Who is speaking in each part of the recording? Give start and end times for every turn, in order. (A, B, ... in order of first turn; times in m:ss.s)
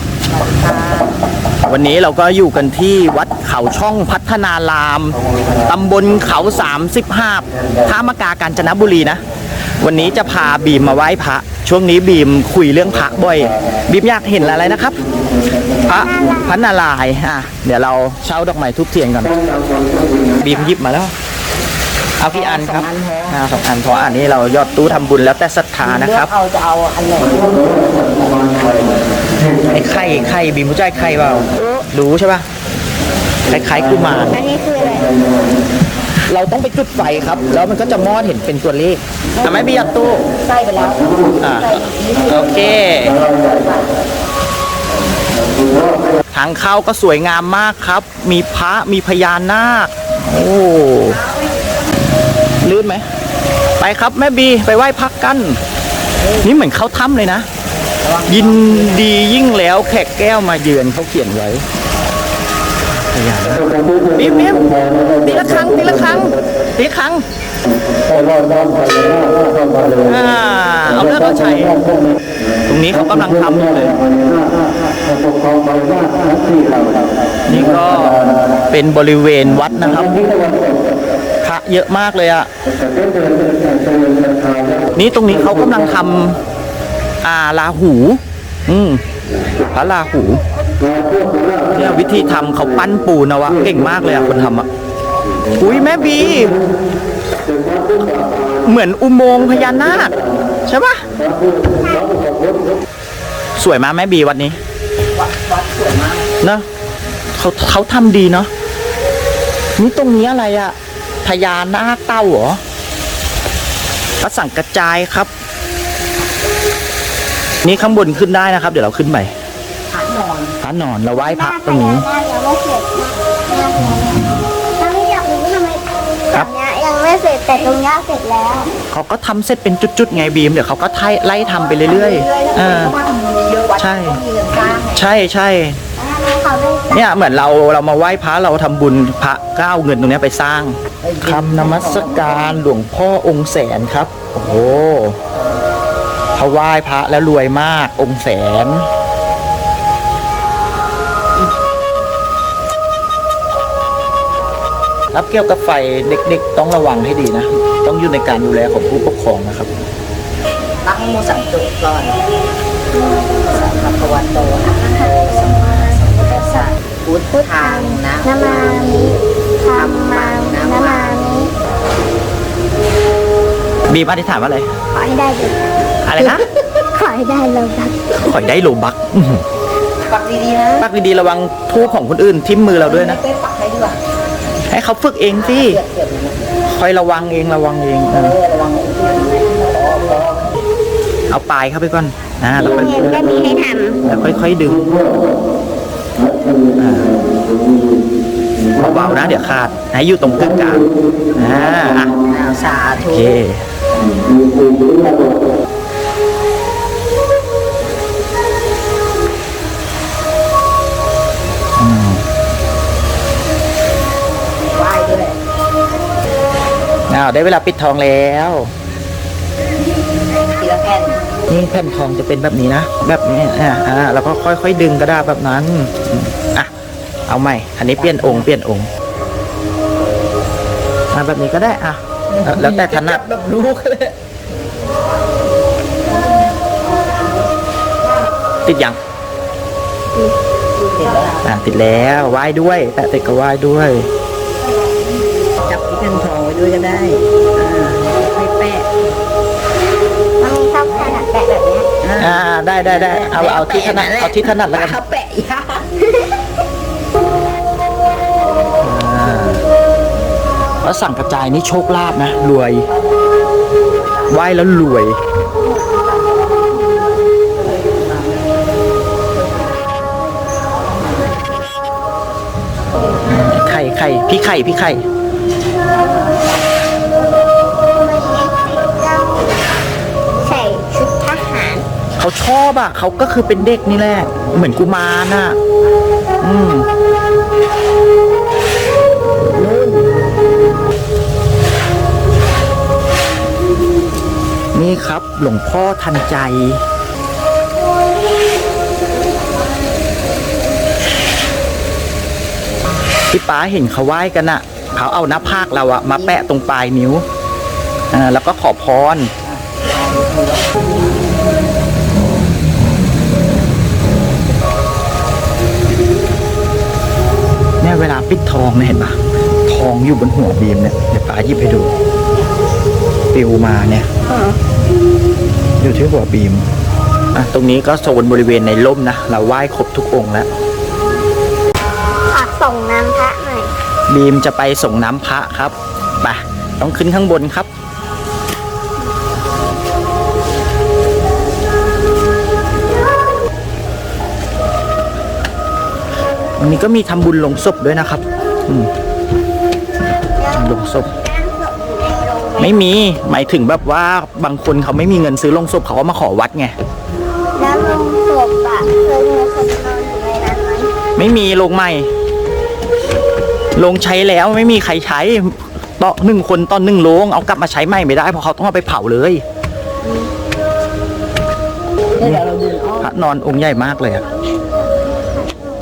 0:00.3-0:01.1 A
0:01.7-0:09.2 B
0:09.8-0:15.0 B
0:15.8-0:19.4 B
0:15.9-0:16.7 C
0:20.4-0:21.1 B
0:22.2-0:26.3 B
0:22.3-0:23.4 A
0:25.8-0:28.5 A
0:29.7-0:32.4 B
0:33.5-0:34.3 B
0:34.3-0:35.1 C
0:36.3-0:40.2 B
0:40.3-0:44.0 A
0:41.4-0:43.2 B
0:46.3-0:51.2 B
0:52.6-0:53.0 B
0:53.8-0:55.6 B
0:56.4-0:57.4 B
0:58.0-0:59.0 A
0:58.3-1:01.6 B
1:03.1-1:07.2 B
1:10.0-1:11.8 B
1:12.7-1:14.0 B
1:17.5-1:20.2 B
1:21.4-1:22.5 B
1:24.9-1:26.4 B
1:27.2-1:29.0 B
1:29.7-1:30.4 B
1:29.7-1:31.3 C
1:31.7-1:34.7 B
1:35.6-1:36.6 B
1:38.6-1:41.1 B
1:41.7-1:42.1 C
1:43.6-1:44.6 B
1:45.1-1:46.3 A
1:47.4-1:48.5 B
1:49.8-1:52.6 B
1:54.2-1:55.3 B
1:57.6-1:59.3 B
1:59.9-2:00.6 A
2:00.6-2:02.0 B
2:01.1-2:04.2 C
2:03.8-2:04.5 B
2:04.8-2:08.7 C
2:08.9-2:12.9 B
2:11.4-2:15.1 A
2:13.8-2:14.2 B
2:14.9-2:15.8 B
2:16.0-2:17.1 C
2:16.9-2:25.2 B
2:21.0-2:22.6 A
2:26.4-2:28.8 B
2:35.1-2:39.7 B
2:40.8-2:42.2 A
2:42.9-2:43.8 C
2:43.5-2:49.0 A
2:44.6-2:46.7 C
2:47.3-2:51.5 C
2:49.7-2:51.2 A
2:53.9-2:54.7 B
2:54.9-2:55.7 C
2:56.0-2:56.4 B
2:56.2-2:56.6 A
2:56.9-2:58.0 C
2:58.1-2:59.4 B
3:00.0-3:00.9 A
3:00.8-3:03.2 B
3:02.8-3:04.0 A
3:04.7-3:05.8 B
3:05.3-3:06.4 A
3:06.7-3:08.3 B
3:08.1-3:10.4 A
3:11.3-3:13.1 B
3:12.6-3:14.0 C
3:14.0-3:14.8 B
3:16.8-3:17.1 B
3:18.8-3:22.2 B
3:22.2-3:23.4 A
3:23.1-3:23.6 B
3:31.8-3:32.2 B
3:34.7-3:35.4 A
3:37.1-3:38.7 B
3:40.5-3:41.2 A
3:41.5-3:46.7 B
3:47.3-3:48.9 B
3:47.9-3:48.5 A
3:51.1-3:53.7 B
3:52.3-3:54.1 A
3:58.6-3:59.0 B
4:00.9-4:01.4 A
4:01.4-4:04.1 B
4:05.6-4:08.9 A
4:10.4-4:11.9 C
4:12.0-4:15.9 A
4:12.2-4:15.0 B
4:18.8-4:19.6 B
4:20.8-4:22.9 B
4:22.9-4:23.4 A
4:23.9-4:24.4 A
4:24.3-4:25.2 B
4:25.5-4:26.8 A
4:27.5-4:28.6 A
4:29.3-4:29.8 A
4:30.7-4:31.4 A
4:33.2-4:35.0 B
4:38.0-4:39.5 C
4:40.4-4:41.8 C
4:42.2-4:45.6 B
4:46.4-4:46.9 B
4:49.6-4:50.0 A
4:54.7-4:56.8 B
5:03.3-5:07.2 B
5:06.1-5:06.4 A
5:08.1-5:09.3 B
5:09.4-5:11.1 A
5:17.8-5:21.9 B
5:23.3-5:24.0 B
5:24.2-5:24.6 C
5:25.8-5:26.7 B
5:27.3-5:30.5 B
5:32.3-5:33.7 C
5:34.1-5:37.7 B
5:46.6-5:48.9 B
5:50.4-5:52.8 C
5:50.5-5:51.1 B
5:52.6-5:56.7 B
5:57.6-6:00.9 C
6:01.2-6:02.1 B
6:03.8-6:09.4 B
6:12.2-6:13.1 A
6:12.2-6:12.5 B
6:13.0-6:14.2 B